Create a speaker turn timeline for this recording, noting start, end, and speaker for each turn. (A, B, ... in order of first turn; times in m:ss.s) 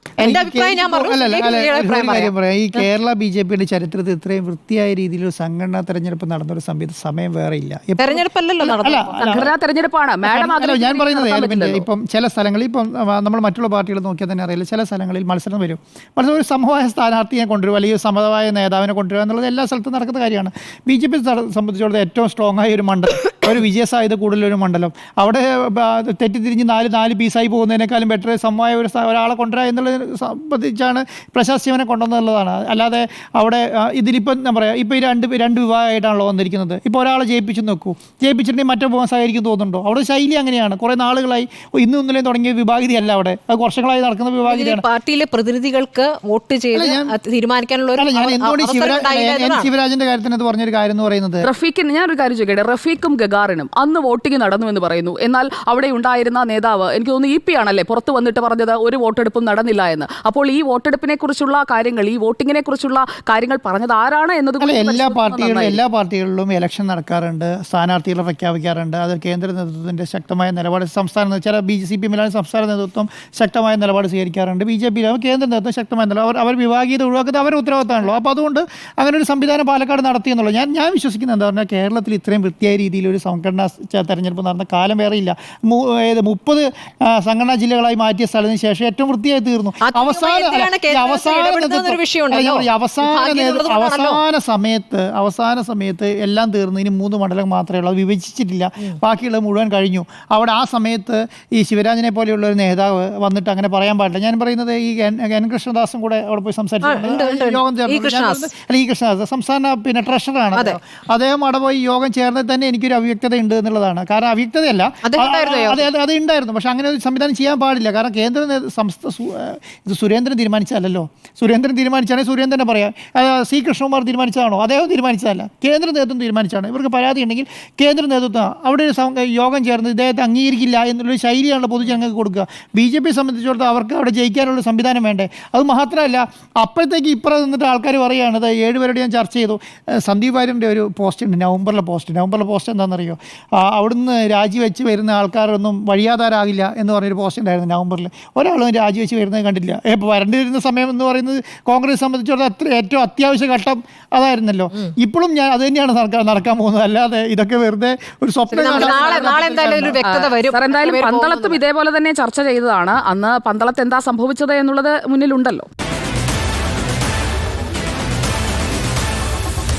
0:00.2-0:09.5 A
0:00.2-0:02.8 B
0:08.0-0:09.4 B
0:09.2-0:11.9 C
0:10.2-0:44.8 A
0:44.4-0:49.7 B
0:46.7-0:47.1 A
0:48.0-0:51.4 A
0:51.4-1:05.8 C
1:04.6-2:40.0 A
1:29.8-1:34.2 B
1:46.8-1:48.5 B
1:55.0-1:55.9 B
2:38.5-2:41.6 B
2:38.6-2:45.7 C